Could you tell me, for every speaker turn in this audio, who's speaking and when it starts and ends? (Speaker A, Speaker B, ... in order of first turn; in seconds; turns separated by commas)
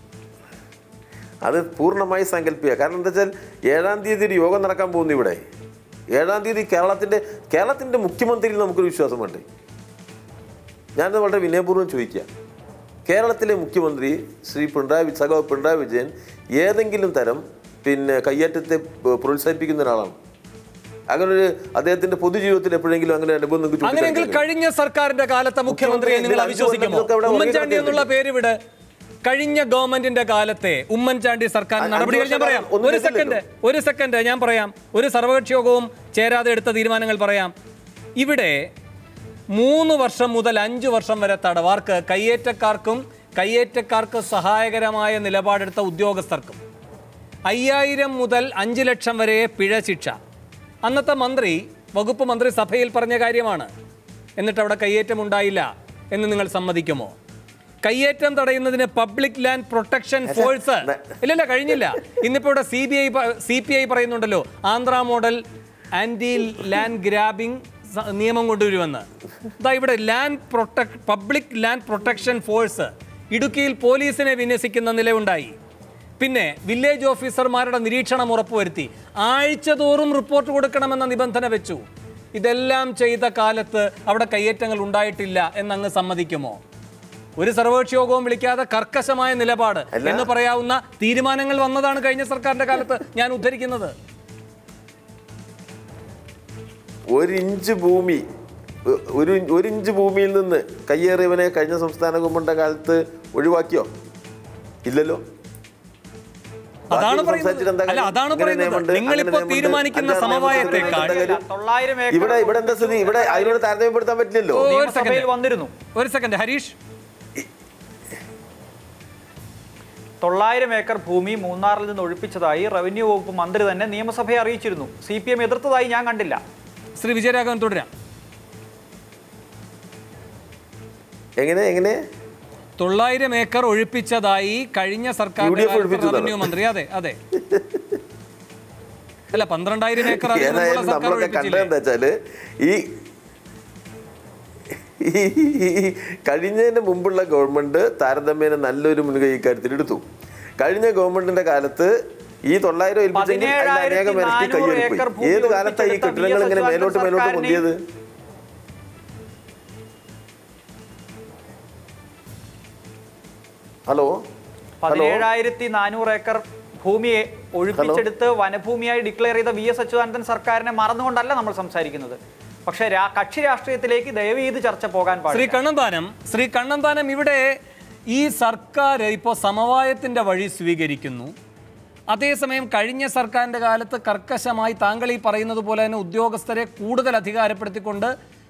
Speaker A: 1.4-5.4, Speaker A: 6.2-9.4, Speaker A: 11.0-12.3, Speaker A: 13.1-20.1, Speaker A: 21.1-24.4, Speaker B: 23.8-28.5, Speaker A: 25.7-28.1, Speaker B: 29.2-37.5, Speaker A: 31.8-33.4, Speaker B: 38.2-38.6, Speaker B: 39.5-46.6, Speaker B: 47.5-50.1, Speaker B: 50.8-53.7, Speaker B: 54.4-57.1, Speaker B: 57.8-65.4, Speaker A: 60.2-61.1, Speaker B: 65.9-69.0, Speaker B: 69.6-75.5, Speaker B: 76.2-81.8, Speaker B: 82.3-86.6, Speaker B: 87.4-93.9, Speaker A: 89.9-90.3, Speaker A: 97.1-98.2, Speaker A: 98.9-103.9, Speaker A: 104.8-105.2, Speaker B: 106.9-111.2, Speaker A: 106.9-111.4, Speaker C: 110.2-113.6, Speaker A: 112.1-114.7, Speaker B: 114.5-115.3, Speaker C: 114.6-115.7, Speaker B: 115.9-116.8, Speaker C: 120.2-126.4, Speaker B: 127.0-127.9, Speaker A: 131.4-132.0, Speaker B: 132.8-137.2, Speaker A: 135.4-136.5, Speaker A: 137.3-137.8, Speaker B: 139.3-141.7, Speaker A: 140.0-142.8, Speaker A: 145.0-150.0, Speaker A: 150.6-151.9, Speaker A: 152.5-157.8, Speaker C: 153.1-157.6, Speaker A: 163.9-164.2, Speaker C: 164.8-175.6, Speaker A: 164.9-165.2, Speaker A: 167.7-168.0, Speaker B: 175.3-177.4, Speaker B: 178.1-181.3, Speaker B: 182.1-188.1